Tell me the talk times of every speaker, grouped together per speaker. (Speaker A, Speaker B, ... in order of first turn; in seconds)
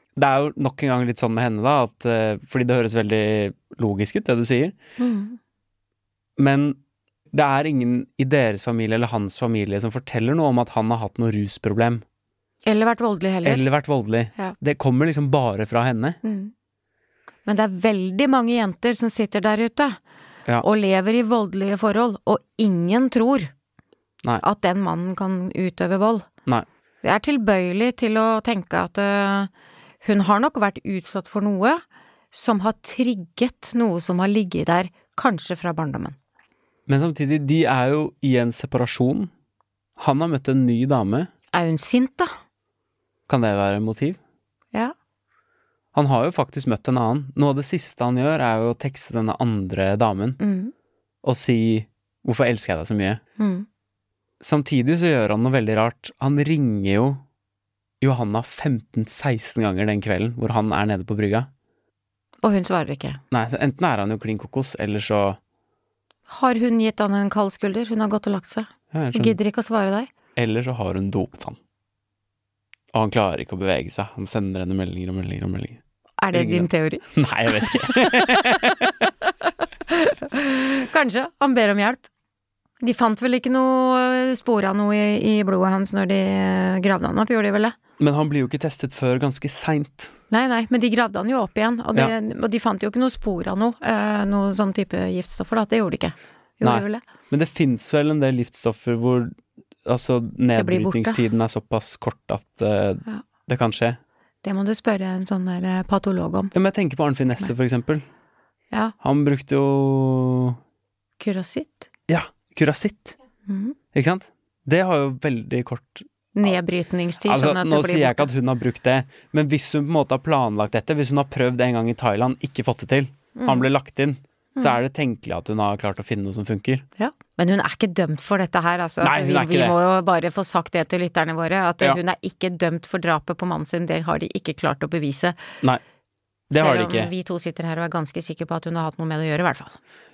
Speaker A: 0.2-4.8, 6.4-6.8, 7.3-12.0, 13.4-16.2, 36.9-39.3, 40.0-41.3, 43.3-44.2, 45.9-50.4, 51.2-53.2, 54.4-57.2, 58.0-61.5, 63.3-65.4, 68.9-69.4, 70.4-71.6, 72.9-75.8, 76.3-79.1, 88.0-90.1, 96.6-104.0, 106.5-108.0, 109.0-110.6, 112.1-113.2, 113.9-116.1, 117.3-126.9, 129.0-129.8, 136.5-137.1
Speaker B: 5.0-5.4, 12.7-13.6, 16.2-16.5, 17.5-20.0, 20.6-23.5, 24.4-26.3, 27.0-29.5, 30.0-36.2, 41.5-42.3, 50.4-50.7, 53.4-53.7, 62.4-63.2, 66.3-70.1, 76.2-82.1, 82.8-87.8, 90.3-97.0, 100.6-101.2, 104.4-106.5, 111.2-111.9, 113.5-113.8, 116.3-118.3, 123.4-123.7, 127.0-135.4, 136.5-139.8